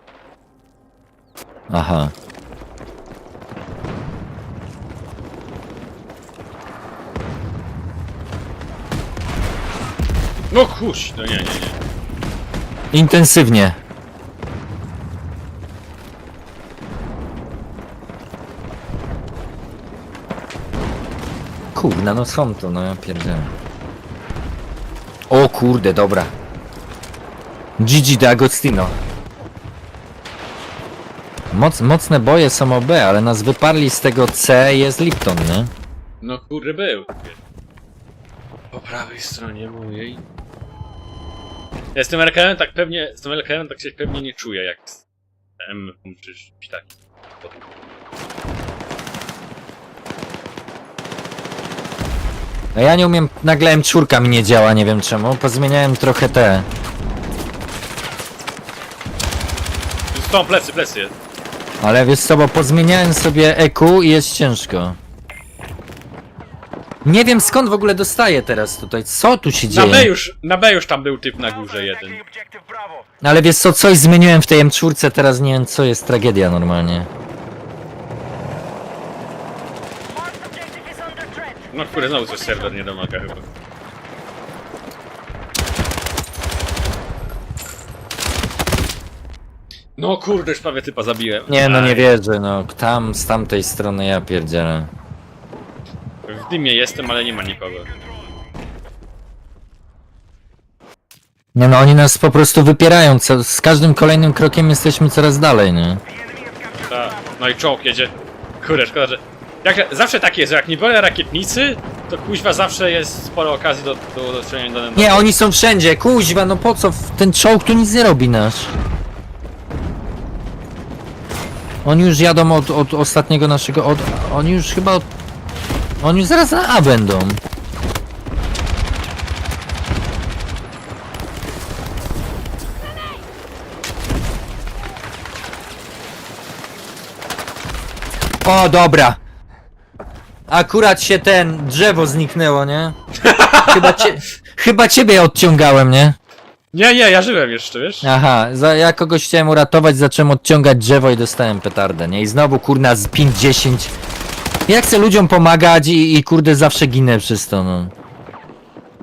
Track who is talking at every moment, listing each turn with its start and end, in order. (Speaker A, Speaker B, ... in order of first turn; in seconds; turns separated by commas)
Speaker A: 1.7-2.1, Speaker B: 10.5-11.8, Speaker A: 12.9-13.8, Speaker A: 21.7-23.5, Speaker A: 25.3-26.3, Speaker A: 27.8-28.9, Speaker A: 31.5-35.7, Speaker B: 36.2-37.4, Speaker B: 38.7-40.2, Speaker B: 41.9-45.0, Speaker B: 45.6-47.7, Speaker A: 52.7-56.7, Speaker B: 60.1-61.1, Speaker A: 61.8-65.0, Speaker A: 67.0-70.1, Speaker B: 69.7-72.2, Speaker A: 73.2-77.1, Speaker B: 81.7-83.5, Speaker B: 90.0-92.1, Speaker A: 91.5-94.9, Speaker B: 96.3-97.9, Speaker A: 101.5-106.0, Speaker B: 106.8-115.3, Speaker A: 115.0-118.7, Speaker A: 121.8-125.1, Speaker A: 126.0-127.4, Speaker A: 138.4-139.2, Speaker A: 140.5-142.9, Speaker B: 143.2-144.1, Speaker A: 143.7-146.2, Speaker B: 146.7-148.1, Speaker A: 148.0-153.9, Speaker A: 154.7-157.9